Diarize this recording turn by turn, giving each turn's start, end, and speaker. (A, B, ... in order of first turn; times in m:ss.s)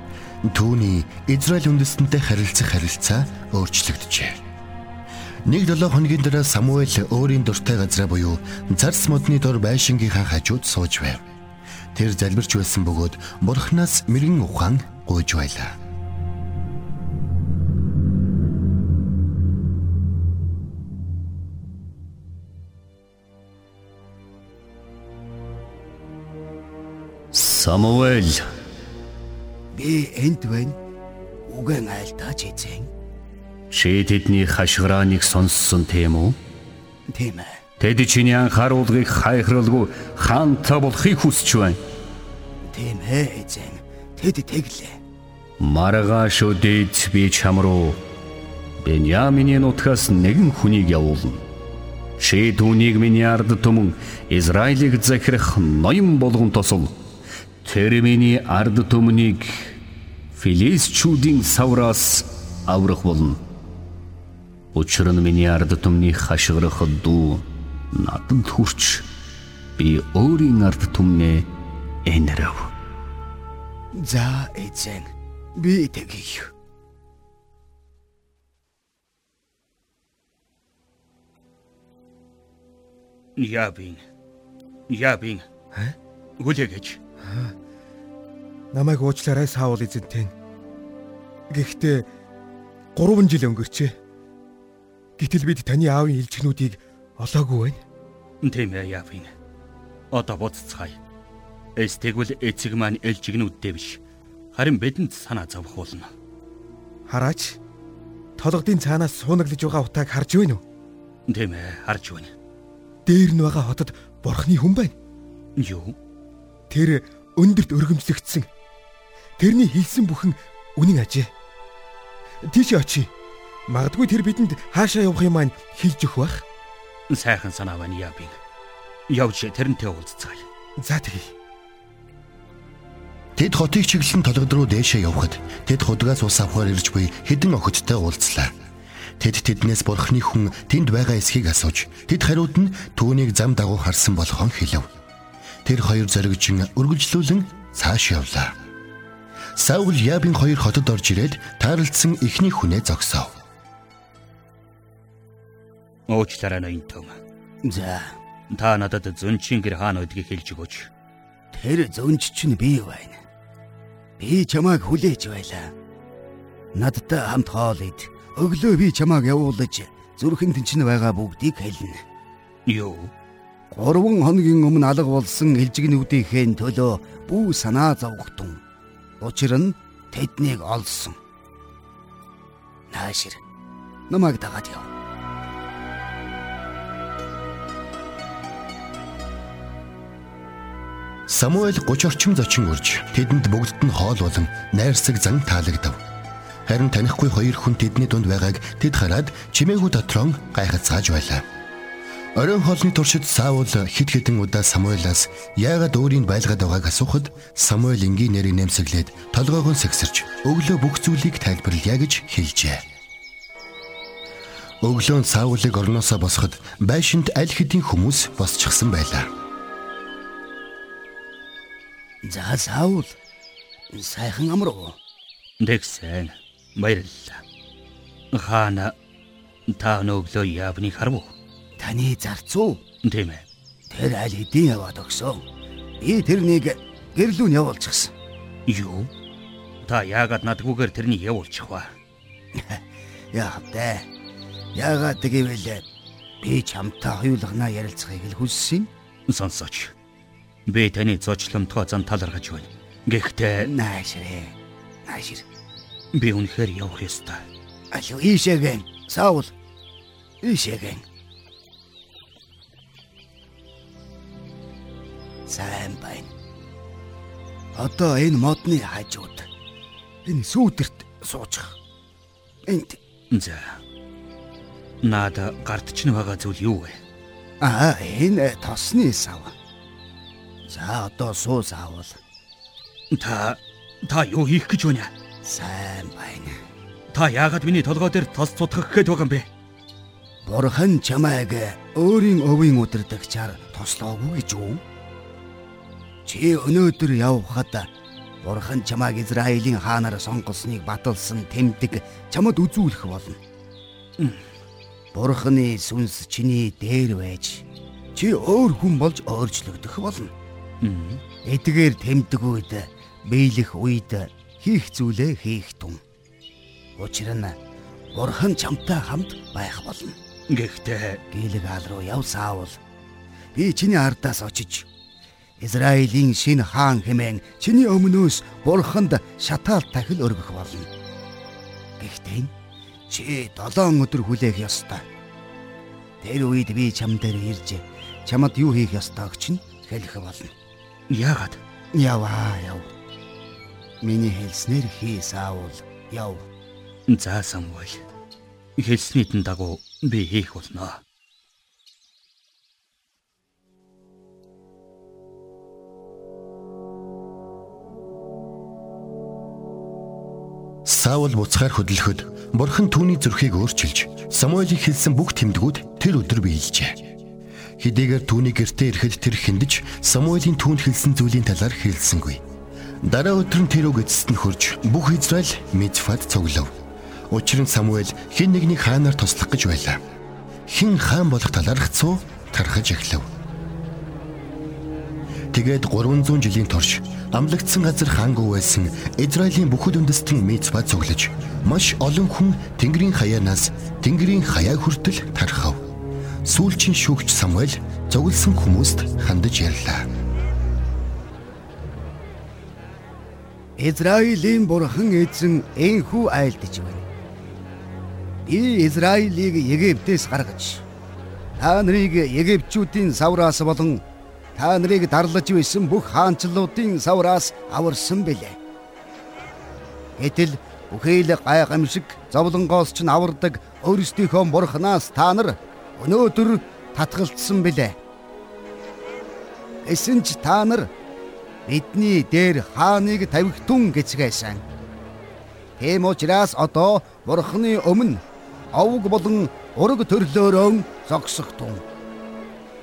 0:00.4-0:04.4 A
0:05.4-0:11.2 A
0:11.9-0:15.7 A
0:27.3-0:28.5 B
0:29.7-0:30.8 C
0:31.5-0:32.9 C
0:33.7-0:36.4 B
0:37.1-0:37.6 C
0:37.8-0:41.8 B
0:42.7-0:45.0 C
0:45.6-0:48.0 B
0:48.8-0:51.4 B
0:52.2-0:56.9 B
0:57.6-0:59.7 B
1:00.3-1:03.4 B
1:04.7-1:09.1 B
1:09.8-1:11.5 B
1:12.0-1:12.7 B
1:13.9-1:16.5 C
1:23.4-1:24.0 D
1:24.9-1:25.5 D
1:26.4-1:27.0 D
1:27.2-1:27.5 E
1:28.7-1:30.3 E
1:31.5-1:32.1 E
1:32.9-1:33.9 E
1:35.2-1:37.8 E
1:38.4-1:39.3 D
1:40.1-1:41.0 D
1:41.8-1:44.0 D
1:44.5-1:46.1 D
1:47.1-1:47.6 E
1:48.4-1:50.6 E
1:51.3-1:52.3 D
1:53.0-1:54.9 E
1:55.6-1:55.9 D
1:56.7-1:58.5 E
1:59.4-2:01.3 E
2:02.4-2:03.1 E
2:03.7-2:06.4 E
2:07.1-2:08.4 D
2:09.1-2:10.4 D
2:10.8-2:11.3 E
2:13.4-2:18.5 A
2:19.2-2:24.9 A
2:25.6-2:28.6 A
2:29.6-2:33.3 A
2:36.1-2:37.2 D
2:37.6-2:38.2 C
2:38.5-2:40.9 D
2:41.5-2:43.2 C
2:44.2-2:45.7 C
2:46.7-2:52.0 C
2:52.7-2:53.1 D
2:53.7-2:58.6 C
2:59.2-3:01.2 C
3:02.9-3:03.4 C
3:04.1-3:04.9 C
3:11.3-3:16.0 A
3:16.6-3:21.4 A
3:22.4-3:32.8 A
3:34.8-3:39.3 A
3:42.2-3:43.2 C
3:43.9-3:45.0 C
3:45.6-3:47.4 D
3:48.3-3:48.9 D
3:49.7-3:51.3 D
3:51.8-3:52.8 C
3:53.0-3:53.4 D
3:53.9-3:55.4 C
3:56.0-3:58.1 C
3:58.7-3:59.1 D
3:59.8-4:01.9 D
4:02.5-4:04.1 C
4:04.8-4:05.8 C
4:06.4-4:08.9 C
4:09.3-4:09.9 D
4:10.6-4:13.7 D
4:13.6-4:15.4 C
4:16.1-4:17.4 D
4:17.9-4:19.5 C
4:20.4-4:21.0 C
4:25.4-4:26.3 C
4:27.7-4:29.5 C
4:30.2-4:31.8 C
4:32.6-4:33.0 C
4:33.3-4:33.8 D
4:35.0-4:37.0 D
4:37.6-4:39.5 C
4:40.6-4:42.2 C
4:43.1-4:45.1 D
4:45.4-4:46.6 C
4:47.1-4:49.4 D
4:50.4-4:54.8 C
4:56.2-4:57.9 C
4:58.4-5:03.4 C
5:04.2-5:04.4 D
5:05.1-5:10.3 C
5:10.8-5:11.2 D
5:11.4-5:16.0 C
5:17.0-5:17.6 C
5:18.1-5:20.2 C
5:20.5-5:21.2 D
5:21.3-5:22.8 C
5:23.5-5:24.9 C
5:25.6-5:30.9 C
5:32.0-5:32.5 C
5:33.1-5:35.0 C
5:36.2-5:40.5 C
5:41.1-5:41.6 D
5:41.9-5:42.9 C
5:44.0-5:46.5 C
5:47.1-5:48.0 D
5:48.8-5:51.0 D
6:00.8-6:07.0 A
6:07.8-6:12.4 A
6:13.0-6:16.7 A
6:17.3-6:20.0 A
6:20.7-6:23.3 A
6:25.5-6:35.8 A
6:36.4-6:40.1 A
6:43.8-6:47.0 C
6:48.4-6:50.8 C
6:51.6-6:54.0 C
6:54.6-6:58.6 C
7:00.2-7:08.0 C
7:09.8-7:10.9 C
7:11.6-7:14.6 C
7:15.8-7:21.8 C